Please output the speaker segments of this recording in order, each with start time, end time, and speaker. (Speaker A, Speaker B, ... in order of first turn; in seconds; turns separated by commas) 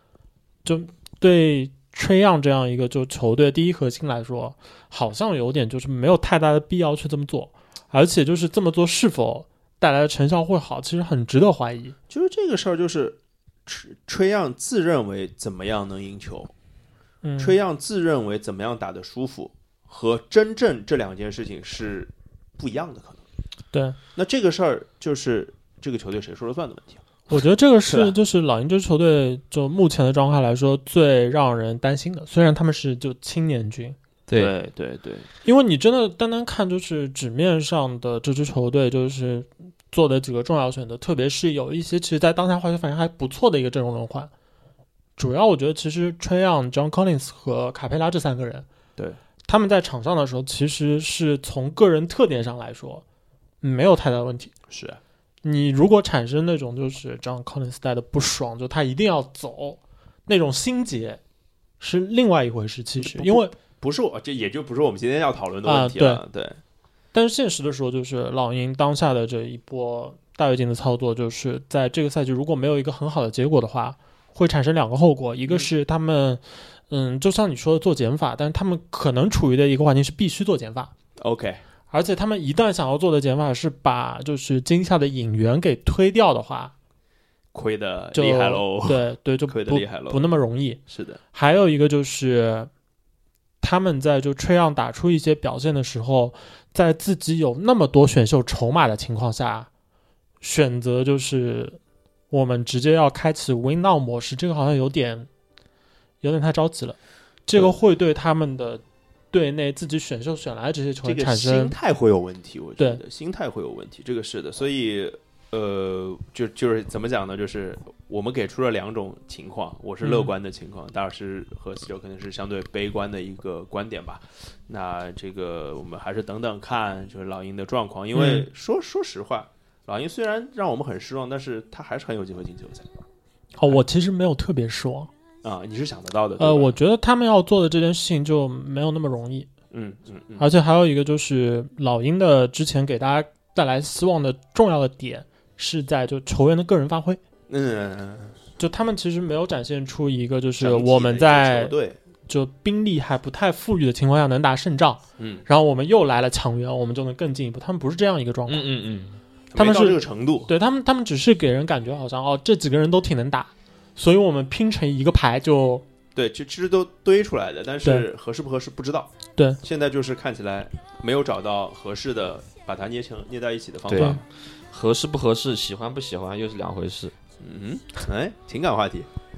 Speaker A: 0.6-11.9, Speaker B: 12.1-16.5, Speaker A: 17.2-17.6, Speaker B: 17.4-23.2, Speaker A: 23.7-24.0, Speaker B: 24.1-27.0, Speaker A: 27.3-34.0, Speaker B: 27.9-28.1, Speaker C: 34.3-34.5, Speaker B: 34.4-35.3, Speaker A: 35.4-44.3, Speaker A: 45.2-48.6, Speaker A: 49.5-53.0, Speaker A: 53.6-54.5, Speaker B: 54.7-55.0, Speaker A: 55.4-61.2, Speaker A: 61.8-63.5, Speaker B: 63.0-66.6, Speaker A: 65.6-66.2, Speaker A: 67.1-80.9, Speaker B: 81.2-81.6, Speaker A: 81.9-86.7, Speaker B: 87.5-90.2, Speaker A: 88.1-90.8, Speaker B: 90.9-91.2, Speaker A: 91.3-92.7, Speaker A: 93.6-99.7, Speaker A: 100.4-101.8, Speaker A: 102.3-105.3, Speaker A: 106.2-111.7, Speaker B: 111.0-132.9, Speaker A: 120.0-120.3, Speaker A: 128.1-128.5, Speaker A: 133.6-135.1, Speaker B: 135.4-136.8, Speaker A: 136.4-139.5, Speaker B: 139.7-140.5, Speaker A: 140.4-147.2, Speaker B: 147.5-148.4, Speaker A: 148.6-151.7, Speaker B: 150.6-152.0, Speaker A: 152.3-158.7, Speaker B: 155.2-155.4, Speaker C: 158.5-159.2, Speaker B: 159.5-160.5, Speaker A: 159.6-165.8, Speaker B: 166.1-174.2, Speaker C: 173.9-177.1, Speaker B: 177.4-179.1